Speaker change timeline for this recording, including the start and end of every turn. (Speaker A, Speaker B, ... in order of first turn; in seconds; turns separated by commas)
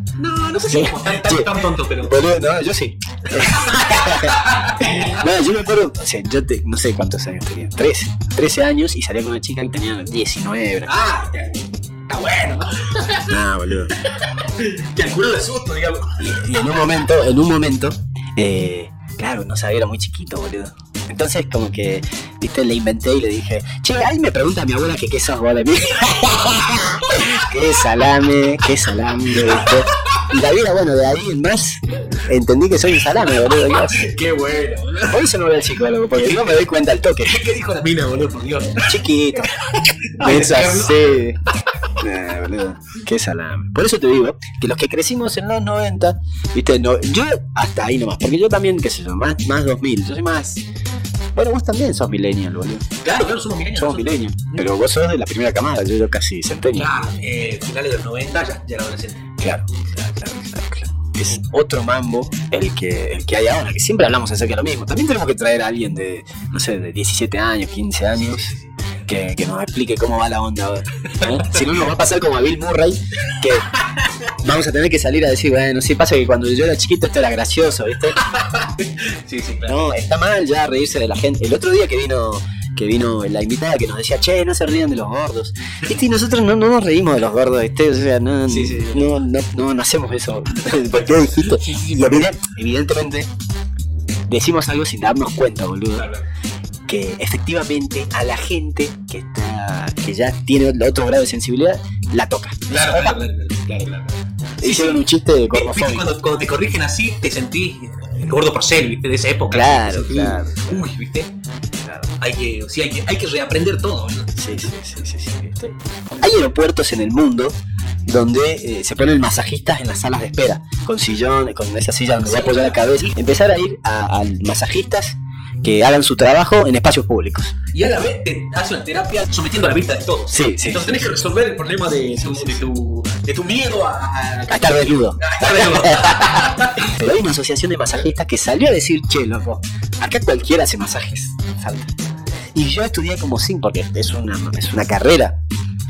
Speaker A: 0.2-2.2, Speaker B: 0.6-10.9, Speaker A: 3.3-5.2, Speaker A: 10.9-13.4, Speaker B: 13.3-13.9, Speaker A: 14.0-16.6, Speaker B: 16.2-34.1, Speaker A: 26.0-27.6, Speaker A: 29.3-30.4, Speaker A: 32.9-35.2, Speaker B: 35.1-37.4, Speaker A: 37.2-42.0, Speaker B: 38.8-39.6, Speaker B: 40.2-41.4, Speaker B: 42.0-50.6, Speaker B: 51.4-52.9, Speaker A: 53.0-54.7, Speaker B: 53.7-56.9, Speaker A: 56.7-59.3, Speaker B: 59.4-68.5, Speaker A: 68.1-68.7, Speaker B: 69.1-73.7, Speaker A: 71.0-71.9, Speaker A: 73.3-74.3, Speaker B: 74.4-78.2, Speaker A: 78.2-79.8, Speaker B: 79.7-93.3, Speaker A: 88.5-89.2, Speaker A: 90.9-92.3, Speaker B: 94.3-96.1, Speaker A: 96.0-96.2, Speaker B: 96.9-103.2, Speaker A: 102.7-111.3, Speaker B: 104.6-106.2, Speaker B: 109.5-110.8, Speaker A: 112.2-114.4, Speaker B: 114.4-127.6, Speaker A: 122.2-123.2, Speaker A: 127.7-136.9, Speaker B: 130.3-131.2, Speaker B: 132.2-132.6, Speaker B: 134.5-141.9, Speaker B: 142.5-145.4